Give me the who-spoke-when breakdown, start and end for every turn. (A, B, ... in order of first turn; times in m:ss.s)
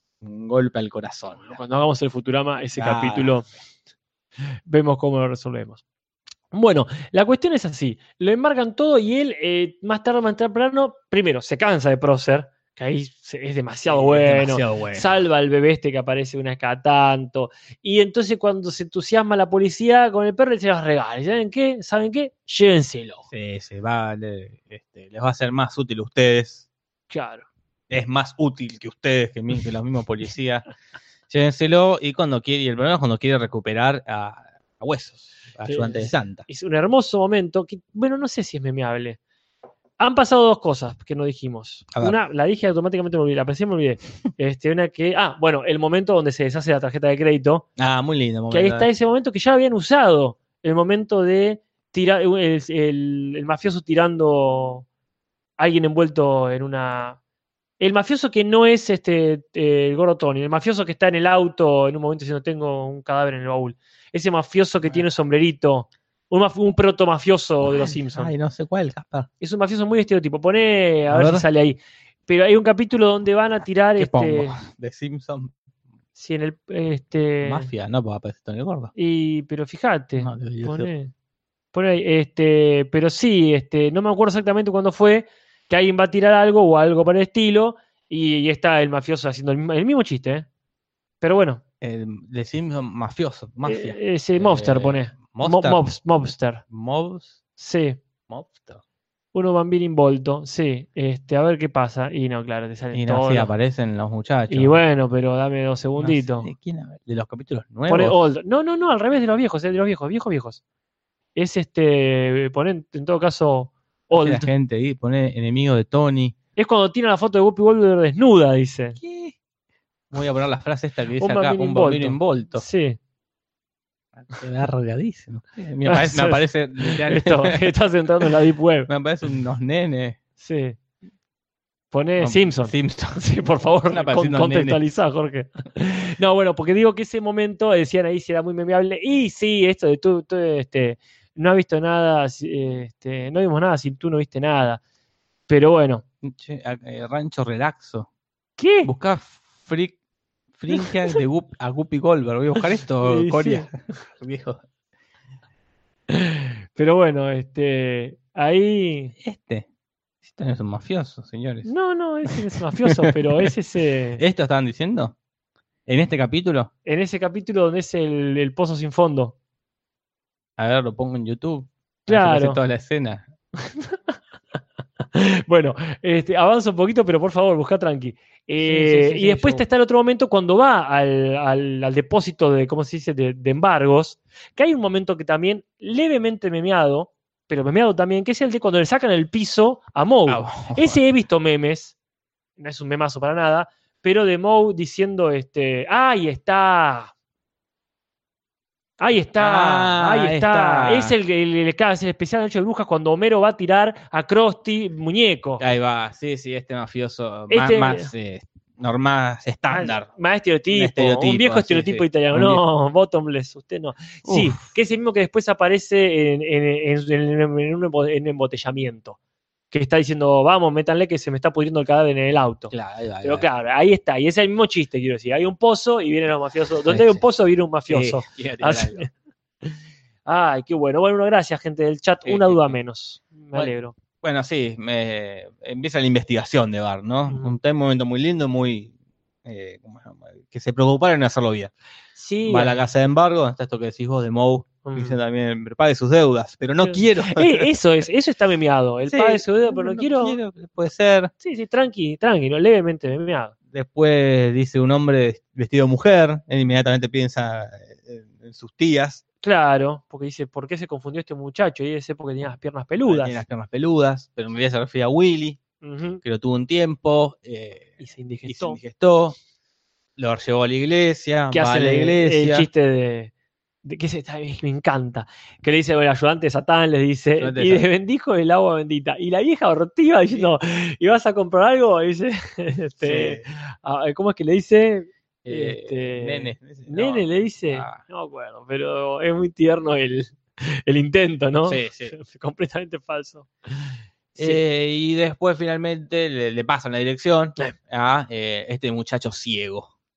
0:00.2-0:01.6 A
0:01.4-0:03.5 B
0:02.8-0:03.4 A
0:04.6-0:05.8 B
0:06.5-0:23.3 B
0:13.9-0:15.1 A
0:23.3-0:26.6 A
0:27.1-0:27.4 B
0:27.9-0:30.6 A
0:31.3-0:36.4 A
0:35.6-0:39.2 B
0:40.0-0:47.6 B
0:47.8-0:48.9 A
0:48.5-0:54.8 B
0:55.6-0:57.2 B
0:57.8-1:08.3 B
1:07.6-1:09.3 A
1:09.4-1:14.6 B
1:11.1-1:11.4 A
1:14.0-1:15.5 A
1:16.2-1:17.7 B
1:17.4-1:18.9 A
1:18.9-1:21.1 B
1:20.2-1:20.9 A
1:21.7-1:30.5 B
1:31.2-1:31.6 B
1:31.8-1:35.8 A
1:33.6-1:36.6 B
1:36.7-1:37.4 A
1:37.6-1:38.0 B
1:38.3-1:38.8 A
1:39.3-1:43.5 B
1:42.9-1:44.8 A
1:44.5-1:46.5 B
1:46.0-1:48.2 A
1:47.9-1:50.6 B
1:51.3-1:54.5 B
1:54.1-1:56.3 A
1:56.6-1:59.0 B
1:59.0-1:59.4 A
2:00.1-2:02.6 A
2:01.2-2:03.0 B
2:04.2-2:07.7 A
2:05.8-2:08.9 B
2:08.9-2:10.2 A
2:10.4-2:10.8 B
2:11.9-2:24.8 B
2:12.2-2:13.2 A
2:13.9-2:14.8 A
2:25.5-2:26.0 B
2:26.2-2:28.1 A
2:28.6-2:28.9 B
2:28.8-2:29.9 A
2:30.6-2:34.6 A
2:33.0-2:34.0 B
2:36.1-2:39.1 B
2:39.2-2:39.6 A
2:40.2-2:41.7 A
2:41.6-2:44.2 B
2:44.2-2:45.2 A
2:45.9-2:46.7 A
2:46.8-2:49.3 B
2:50.6-2:53.2 A
2:52.1-2:52.6 B
2:53.7-2:54.1 B
2:55.1-3:11.9 B
2:58.6-2:59.6 A
3:10.3-3:11.0 A
3:12.6-3:17.1 B
3:19.0-3:25.6 B
3:19.4-3:21.1 A
3:25.6-3:30.1 A
3:27.5-3:28.1 B
3:29.7-3:39.2 B
3:30.7-3:32.6 A
3:34.2-3:34.7 A
3:39.7-3:49.1 B
3:42.7-3:43.4 A
3:46.9-3:47.2 A
3:47.9-3:49.0 A
3:50.2-3:53.9 B
3:52.2-3:52.8 A
3:54.2-3:58.9 A
3:57.3-3:57.6 B
3:59.4-4:01.7 A
4:02.2-4:02.8 B
4:02.4-4:07.7 A
4:04.8-4:05.2 B
4:06.8-4:10.4 B
4:09.1-4:11.3 A
4:11.4-4:13.5 B
4:13.7-4:19.2 A
4:19.4-4:23.4 B
4:23.0-4:25.6 A
4:25.8-4:26.2 B
4:26.2-4:29.4 A
4:28.0-4:28.8 B
4:30.2-4:32.7 A
4:31.5-4:33.3 B
4:33.8-4:54.6 B
4:37.4-4:37.8 A
4:43.0-4:43.4 A
4:45.4-4:48.0 A
4:51.6-4:52.1 A
4:54.4-4:59.9 A